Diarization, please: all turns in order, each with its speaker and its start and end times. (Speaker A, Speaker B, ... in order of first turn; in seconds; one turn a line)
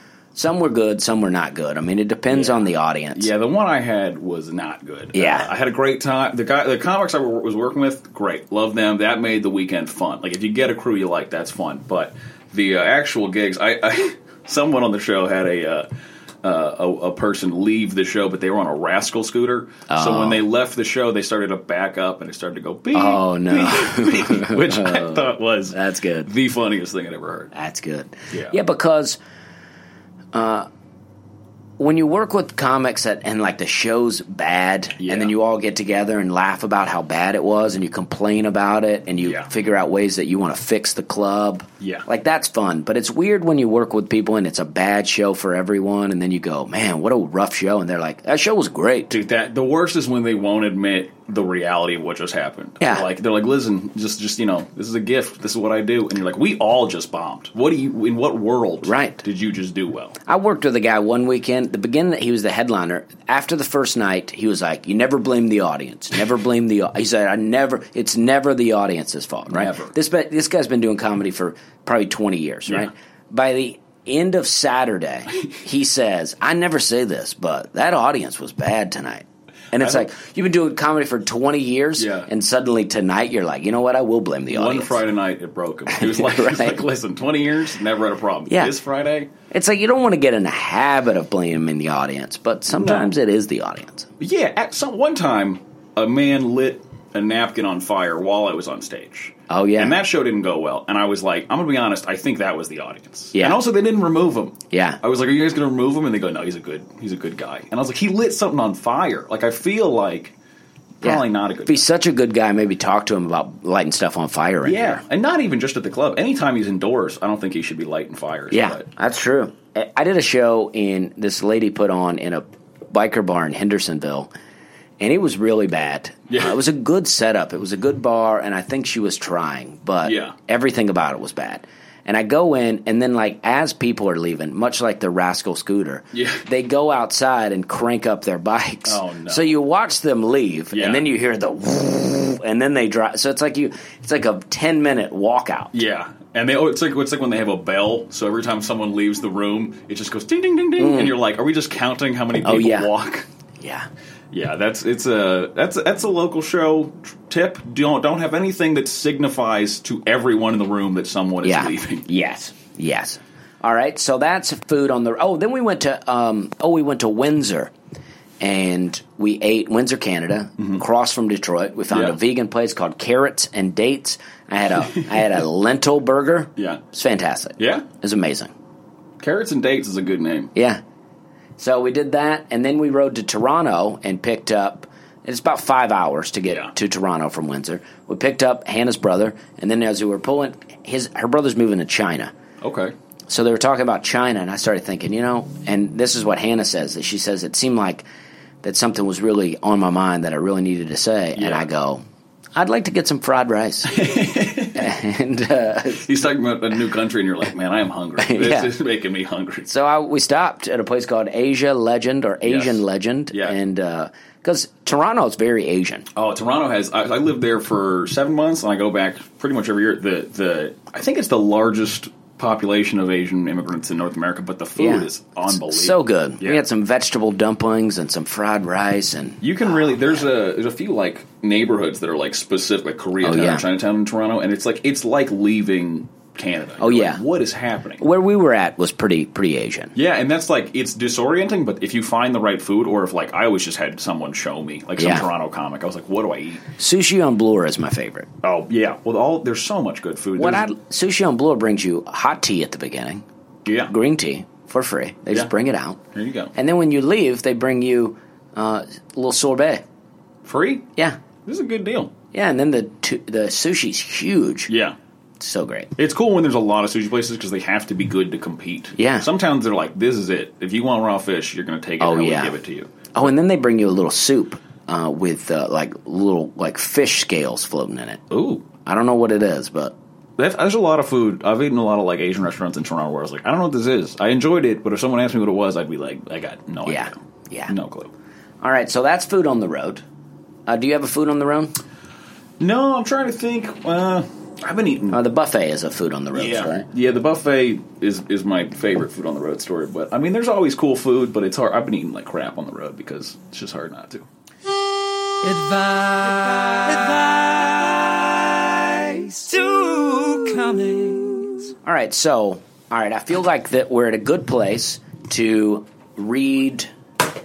Speaker A: 0.3-3.3
Speaker B: 2.3-2.6
Speaker B: 3.1-15.9
Speaker A: 5.1-5.5
Speaker B: 16.4-27.5
Speaker A: 19.9-20.4
Speaker A: 22.9-26.3
Speaker A: 27.5-29.2
Speaker B: 28.3-28.6
Speaker A: 30.3-30.7
Speaker A: 31.8-49.1
Speaker B: 35.0-35.3
Speaker B: 41.8-42.0
Speaker B: 49.1-60.2
Speaker A: 52.8-53.1
Speaker A: 58.8-59.2
Speaker A: 60.2-85.0
Speaker B: 69.5-69.9
Speaker B: 79.8-80.1
Speaker B: 82.0-82.3
Speaker B: 84.5-89.3
Speaker A: 85.9-86.8
Speaker A: 88.5-88.8
Speaker A: 89.5-94.1
Speaker B: 92.7-93.1
Speaker B: 94.2-110.3
Speaker A: 99.5-100.0
Speaker A: 103.3-103.6
Speaker A: 104.7-105.0
Speaker B: 111.0-111.8
Speaker A: 111.0-115.0
Speaker B: 114.6-118.9
Speaker A: 118.5-124.3
Speaker A: 125.0-145.7
Speaker B: 126.3-126.6
Speaker B: 130.0-130.3
Speaker B: 136.1-136.4
Speaker B: 138.9-139.5
Speaker B: 140.7-141.1
Speaker B: 145.7-153.3
Speaker A: 150.8-151.2
Speaker A: 152.4-152.9
Speaker A: 153.6-153.9
Speaker B: 154.3-162.1
Speaker A: 161.4-167.7
Speaker A: 168.4-178.5
Speaker B: 171.9-172.2
Speaker B: 176.6-176.8
Speaker B: 177.6-177.9
Speaker B: 179.2-180.5
Speaker A: 180.6-180.8
Speaker A: 181.6-192.3
Speaker B: 192.6-192.9
Speaker A: 193.3-198.1
Speaker A: 198.6-202.0
Speaker B: 201.4-201.7
Speaker A: 202.6-204.0
Speaker B: 203.9-204.9
Speaker A: 204.7-206.1
Speaker B: 205.9-209.7
Speaker A: 208.2-208.7
Speaker A: 209.7-216.1
Speaker B: 212.4-213.6
Speaker B: 216.2-226.6
Speaker A: 224.8-230.1
Speaker B: 229.4-238.0
Speaker A: 233.2-233.7
Speaker A: 236.8-237.2
Speaker A: 238.0-239.9
Speaker B: 239.9-246.7
Speaker A: 245.0-245.2
Speaker A: 246.8-248.3
Speaker B: 248.4-250.7
Speaker A: 250.4-253.2
Speaker B: 253.7-253.9
Speaker A: 253.9-256.0
Speaker B: 256.1-256.5
Speaker A: 256.6-259.8
Speaker B: 260.4-260.9
Speaker B: 261.4-262.1
Speaker A: 262.3-264.7
Speaker B: 264.7-265.0
Speaker A: 265.4-265.9
Speaker B: 266.0-272.9
Speaker A: 269.0-269.3
Speaker A: 272.0-272.6
Speaker A: 273.1-278.2
Speaker B: 278.3-278.7
Speaker A: 278.8-279.9
Speaker B: 280.4-287.1
Speaker A: 286.9-287.7
Speaker B: 287.7-288.1
Speaker A: 288.6-290.0
Speaker A: 290.7-291.8
Speaker B: 292.6-295.2
Speaker A: 295.1-296.9
Speaker B: 296.3-304.3
Speaker C: 305.4-311.7
Speaker A: 311.8-316.9